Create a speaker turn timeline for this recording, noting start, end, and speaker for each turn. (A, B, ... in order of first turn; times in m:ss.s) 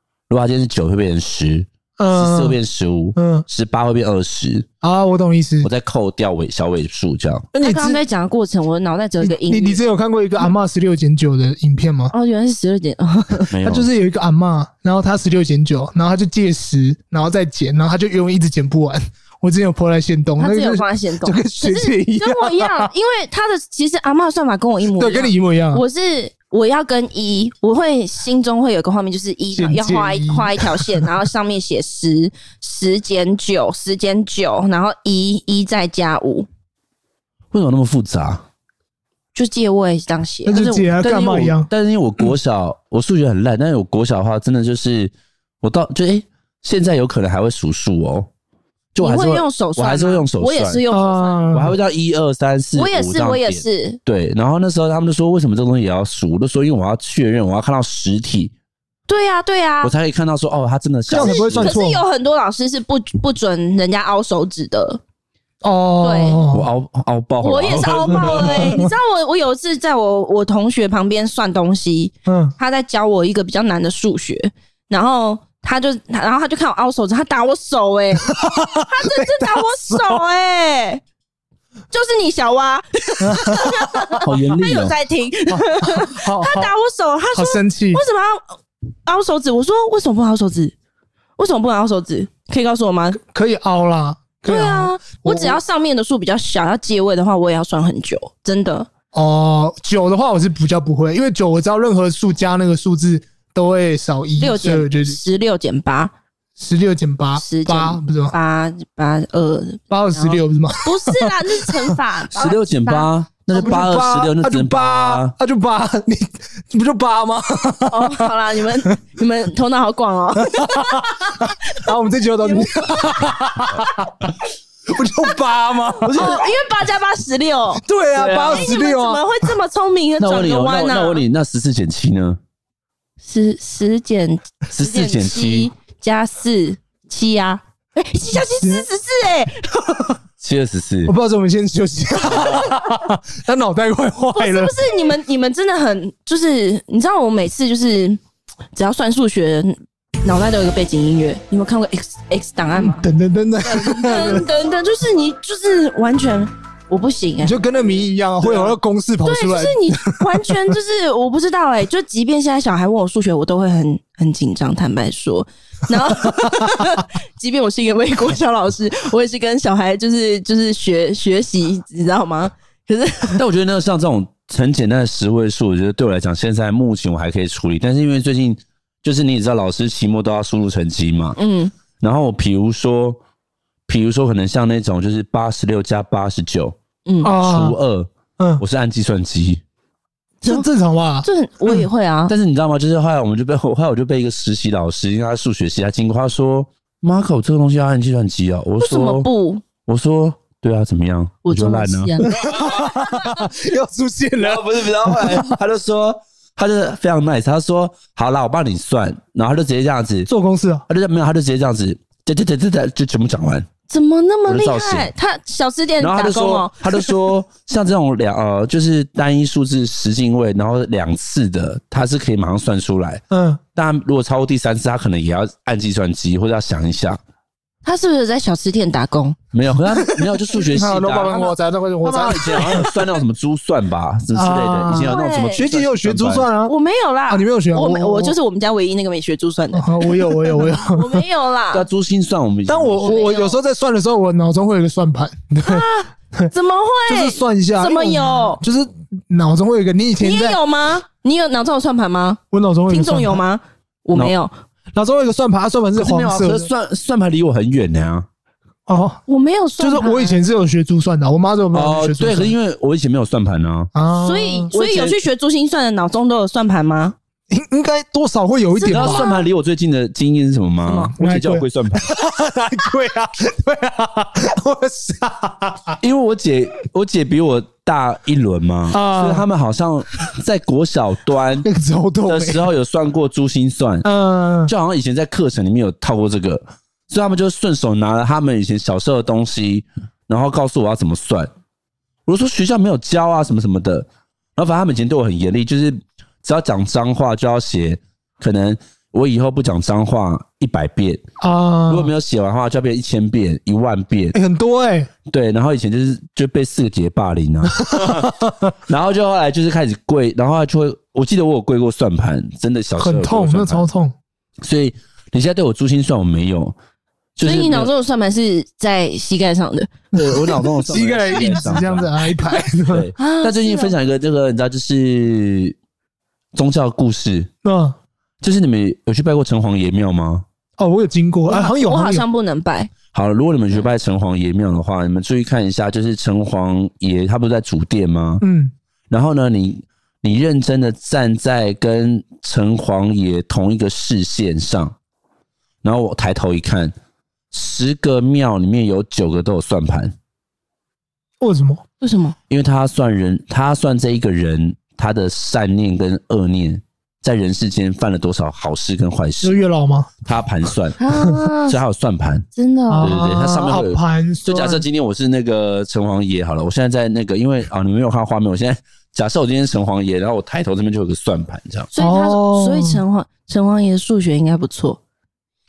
0:00.3-0:04.7 A
0:02.0-0:02.6 B
0:03.2-0:03.4 B
0:04.8-0:05.7 B
0:05.6-0:07.5 A
0:07.5-0:08.0 B
0:07.6-0:09.8 C
0:09.2-0:12.1 B
0:12.1-0:13.5 C
0:13.5-0:13.9 A
0:13.6-0:22.9 B
0:20.4-0:36.5 C
0:25.0-0:25.8 B
0:29.5-0:31.1 B
0:37.5-0:38.4 A
0:39.3-0:40.9 C
0:40.4-0:41.7 B
0:41.0-0:48.3 A
0:48.9-0:50.8 A
0:49.0-0:51.4 C
0:50.9-0:51.8 B
0:51.5-0:58.5 A
0:52.8-0:54.0 C
0:59.1-0:59.9 C
0:59.8-1:01.7 A
1:01.1-1:02.0 B
1:01.1-1:05.0 C
1:05.6-1:06.7 B
1:06.0-1:06.4 C
1:06.5-1:08.8 A
1:07.4-1:21.0 C
1:08.2-1:08.9 B
1:12.2-1:12.5 B
1:18.3-1:20.2 B
1:21.9-1:30.7 C
1:23.2-1:24.1 B
1:24.2-1:24.9 A
1:25.5-1:26.7 B
1:27.3-1:28.0 B
1:31.4-1:33.2 C
1:33.2-1:35.6 B
1:34.4-1:38.9 C
1:39.1-1:45.2 B
1:44.4-1:46.1 C
1:46.6-1:48.3 B
1:47.4-1:53.1 C
1:49.9-1:51.8 B
1:52.3-1:55.3 A
1:53.5-1:58.3 B
1:57.9-2:03.8 C
2:00.4-2:04.3 B
2:04.9-2:06.5 B
2:06.1-2:07.8 C
2:07.8-2:09.2 B
2:08.1-2:08.7 A
2:08.5-2:11.2 C
2:10.2-2:12.4 A
2:13.2-2:20.0 C
2:14.7-2:15.7 A
2:20.4-2:21.1 A
2:21.0-2:24.7 B
2:24.3-2:28.2 C
2:28.7-2:33.0 C
2:32.7-2:34.4 B
2:33.6-2:37.6 C
2:37.4-2:40.7 B
2:39.2-2:53.4 C
2:53.3-3:01.4 A
3:01.4-3:01.7 C
3:02.0-3:03.2 A
3:03.9-3:06.7 A
3:07.0-3:07.3 C
3:07.2-3:07.8 B
3:07.3-3:09.6 A
3:10.4-3:11.8 B
3:11.2-3:12.3 C
3:12.3-3:19.3 A
3:18.8-3:19.6 C
3:19.8-3:23.2 A
3:21.4-3:22.4 C
3:22.2-3:25.6 B
3:24.4-3:30.3 A
3:30.3-3:30.8 B
3:30.9-3:33.7 A
3:33.9-3:37.1 C
3:34.5-3:35.1 A
3:36.0-3:43.2 A
3:43.3-3:43.6 B
3:43.7-3:47.2 A
3:47.8-3:49.4 C
3:49.5-3:51.5 A
3:50.7-3:52.9 B
3:52.0-3:56.5 A
3:52.2-3:52.9 C
3:54.3-3:56.7 B
3:54.9-3:55.6 C
3:56.6-4:01.8 C
3:57.3-3:58.4 B
3:59.7-4:01.2 B
4:01.7-4:03.1 A
4:02.7-4:06.5 B
4:03.0-4:03.6 C
4:05.6-4:08.6 C
4:07.1-4:10.6 B
4:10.2-4:14.5 C
4:12.5-4:13.4 B
4:14.9-4:16.7 B
4:16.0-4:18.2 A
4:18.9-4:19.2 B
4:19.3-4:20.4 C
4:19.8-4:22.5 B
4:21.7-4:23.9 A
4:23.9-4:24.7 B
4:24.2-4:27.2 C
4:24.7-4:25.1 A
4:27.5-4:29.3 B
4:28.7-4:29.4 C
4:28.9-4:32.1 A
4:30.8-4:31.1 C
4:31.2-4:36.0 B
4:36.0-4:41.7 A
4:38.9-4:39.5 B
4:41.6-4:42.7 B
4:42.2-4:44.1 A
4:44.0-4:44.7 B
4:44.7-4:51.5 A
4:52.2-5:01.2 A
5:01.4-5:02.1 B
5:01.9-5:04.4 A
5:04.3-5:05.1 B
5:05.3-5:08.3 A
5:07.8-5:08.7 B
5:08.9-5:13.8 A
5:13.0-5:14.1 B
5:14.6-5:16.7 A
5:17.4-5:17.9 A
5:17.4-5:20.4 C
5:20.1-5:22.1 A
5:20.8-5:23.1 B
5:22.9-5:25.8 A
5:23.2-5:23.9 C
5:26.5-5:27.5 A
5:27.6-5:28.0 B
5:28.4-5:30.4 A
5:30.8-5:32.2 B
5:31.5-5:32.9 C
5:33.1-5:38.4 A
5:38.4-5:38.7 B
5:39.1-5:44.9 A
5:45.8-5:46.9 A
5:47.5-5:50.1 A
5:51.4-5:51.8 B
5:52.0-5:52.4 C
5:52.5-5:59.6 A
5:59.4-6:00.1 B
6:00.2-6:01.0 A
6:01.0-6:01.8 C
6:01.7-6:02.4 A
6:02.6-6:03.2 C
6:02.9-6:04.8 B
6:03.0-6:11.9 A
6:11.9-6:15.0 C
6:12.0-6:13.0 B